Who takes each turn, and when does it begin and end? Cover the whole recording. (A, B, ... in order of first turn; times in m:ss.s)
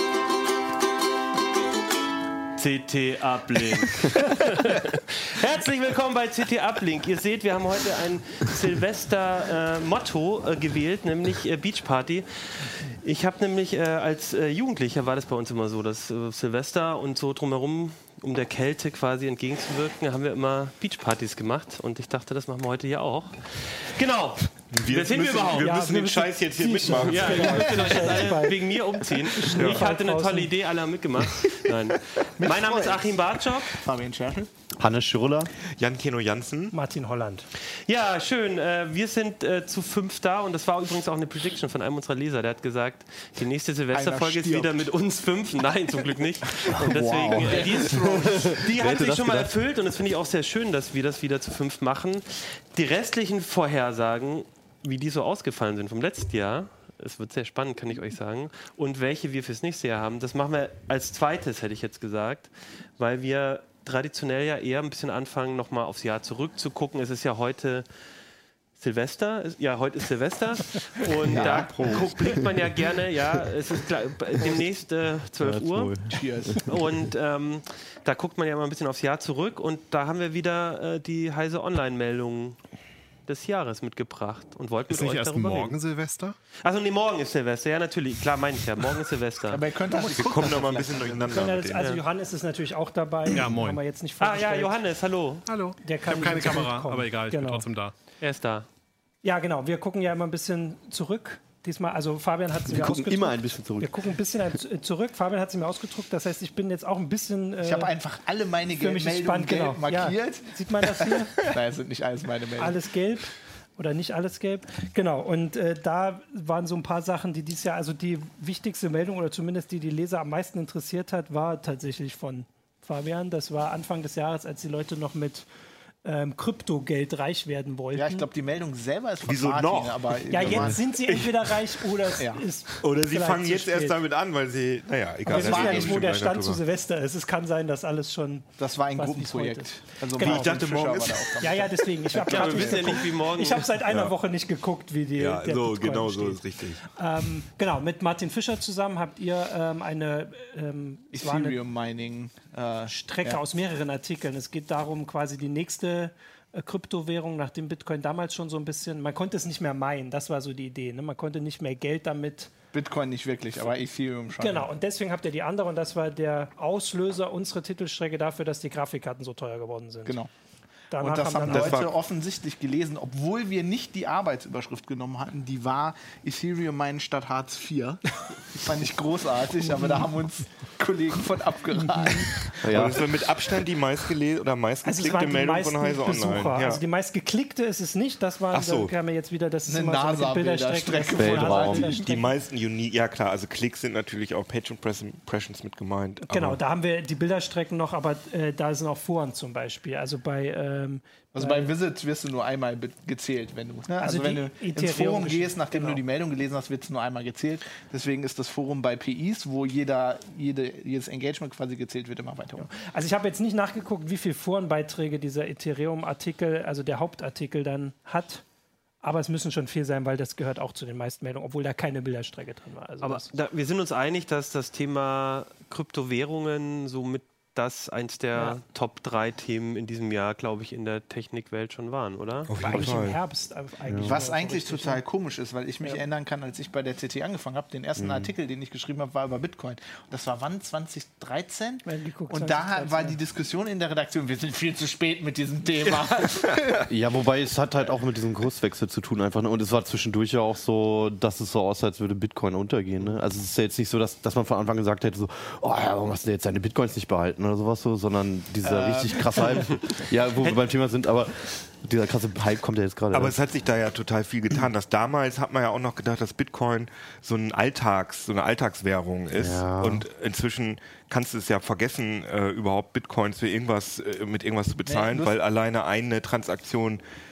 0:02.6-0:25.7 A
0:24.7-0:28.1 B
0:25.6-0:30.5 C
0:27.0-0:33.7 A
0:29.5-0:29.8 B
0:32.4-0:34.5 D
0:34.8-0:35.5 E
0:35.8-0:36.7 B
0:36.7-0:37.5 C
0:37.8-1:07.8 A
0:43.9-0:44.9 D
0:46.7-0:49.5 E
0:46.9-0:48.6 D
1:08.8-1:15.9 A
1:11.2-1:12.5 E
1:11.3-1:12.1 B
1:15.4-1:16.6 E
1:16.0-1:16.7 D
1:16.6-1:22.6 A
1:23.3-1:25.8 A
1:24.9-1:26.4 F
1:26.6-1:29.6 A
1:29.5-1:31.4 D
1:30.0-1:31.9 B
1:31.3-1:34.7 C
1:31.8-1:32.0 A
1:33.3-1:33.8 F
1:34.2-1:35.4 A
1:35.4-1:37.9 F
1:35.8-1:37.6 C
1:38.2-1:38.6 A
1:39.2-1:47.9 C
1:42.7-1:43.9 E
1:47.6-1:52.8 D
1:48.7-1:51.5 C
1:52.6-2:05.5 C
2:06.0-2:08.3 C
2:07.9-2:10.8 D
2:09.2-2:11.7 B
2:10.3-2:14.0 C
2:12.2-2:12.4 D
2:12.8-2:16.6 B
2:15.2-2:16.1 D
2:15.2-2:20.7 C
2:18.6-2:22.9 D
2:20.2-2:21.3 B
2:21.4-2:31.6 C
2:22.2-2:23.7 A
2:25.2-2:26.8 B
2:31.1-2:33.4 D
2:32.9-2:42.5 C
2:42.7-2:44.7 D
2:44.4-2:50.2 C
2:50.9-2:51.9 C
2:50.9-3:02.6 D
2:51.4-2:51.9 B
2:59.7-3:00.0 C
3:01.8-3:02.3 C
3:02.5-3:06.8 B
3:02.6-3:03.2 E
3:04.8-3:12.3 C
3:08.5-3:08.9 B
3:09.7-3:12.1 D
3:11.2-3:12.0 E
3:12.0-3:16.6 B
3:16.2-3:21.7 C
3:21.3-3:32.7 D
3:24.0-3:26.0 C
3:32.6-3:38.4 C
3:39.0-3:43.3 C
3:43.0-3:52.5 A
3:52.5-3:53.2 B
3:52.6-3:55.0 C
3:53.8-3:54.2 E
3:54.0-4:06.9 D
3:58.0-3:58.3 E
4:01.8-4:03.2 C
4:06.9-4:23.4 E
4:18.6-4:19.8 D
4:23.1-4:37.0 B
4:29.4-4:30.0 E
4:34.9-4:35.3 D